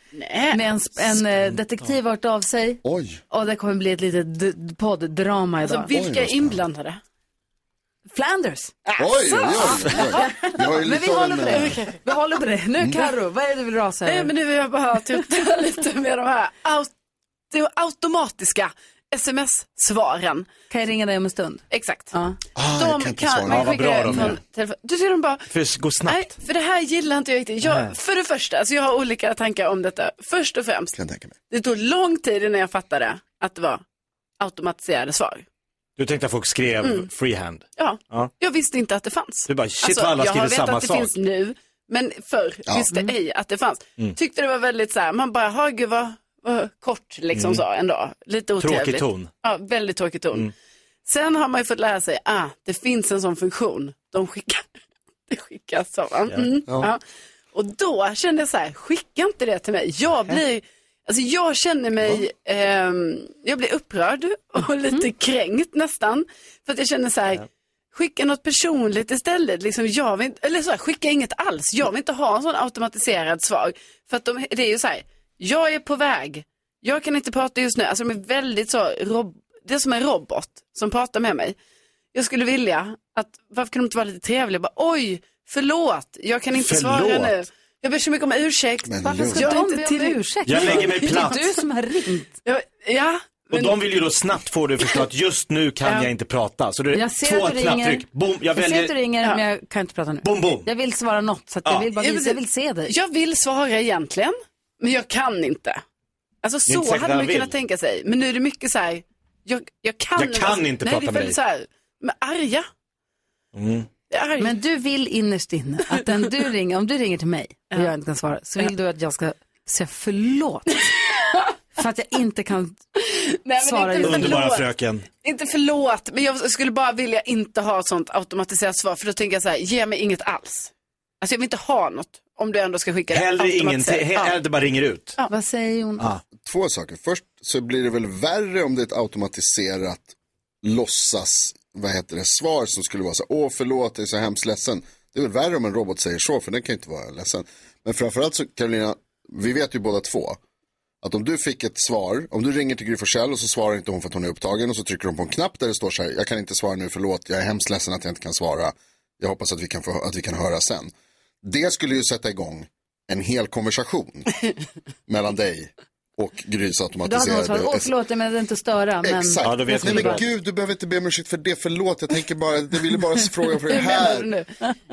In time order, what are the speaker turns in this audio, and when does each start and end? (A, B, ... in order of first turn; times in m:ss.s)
0:00.1-0:00.6 A
0:00.5-0:05.9 B
0:02.8-0:03.2 C
0:05.6-0:07.0 A
0:05.9-0:06.6 C
0:08.1-0:08.8 B
0:08.9-0:10.4 A
0:09.0-0:11.8 C
0:10.0-0:14.3 B
0:11.4-0:12.0 A
0:14.0-0:16.9 A
0:17.5-0:20.5 A
0:20.7-0:22.4 B
0:21.7-0:22.1 A
0:22.6-0:24.4 C
0:22.7-0:25.5 A
0:23.5-0:24.4 D
0:25.5-0:26.3 D
0:26.0-0:30.9 A
0:27.6-0:27.9 D
0:30.9-0:31.4 C
0:31.5-0:33.8 A
0:34.4-0:35.4 A
0:36.0-0:38.3 D
0:36.8-0:37.1 A
0:37.8-0:50.5 A
0:39.5-0:41.1 D
0:47.3-0:47.6 D
0:48.6-0:49.3 D
0:51.1-0:54.7 A
0:55.3-0:57.0 A
0:57.5-1:21.6 A
1:22.1-1:31.3 A
1:26.5-1:27.4 D
1:28.9-1:29.5 C
1:29.3-1:32.3 B
1:30.4-1:31.4 D
1:32.4-1:33.8 A
1:33.5-1:39.0 D
1:35.8-1:36.1 A
1:36.9-1:42.9 B
1:40.2-1:40.7 D
1:41.9-1:45.8 A
1:46.4-1:52.7 A
1:46.7-1:47.5 D
1:50.2-1:51.4 D
1:53.5-1:53.9 D
1:54.1-1:54.6 A
1:54.4-2:00.8 B
2:01.8-2:02.8 B
2:03.0-2:04.7 A
2:03.6-2:04.6 B
2:04.0-2:05.0 D
2:05.2-2:14.4 A
2:13.1-2:15.2 D
2:15.3-2:16.1 B
2:16.4-2:30.4 C
2:31.0-2:44.3 C
2:45.1-2:47.9 C
2:47.0-2:50.2 B
2:49.0-2:54.3 C
2:49.4-2:50.3 D
2:53.7-2:54.5 A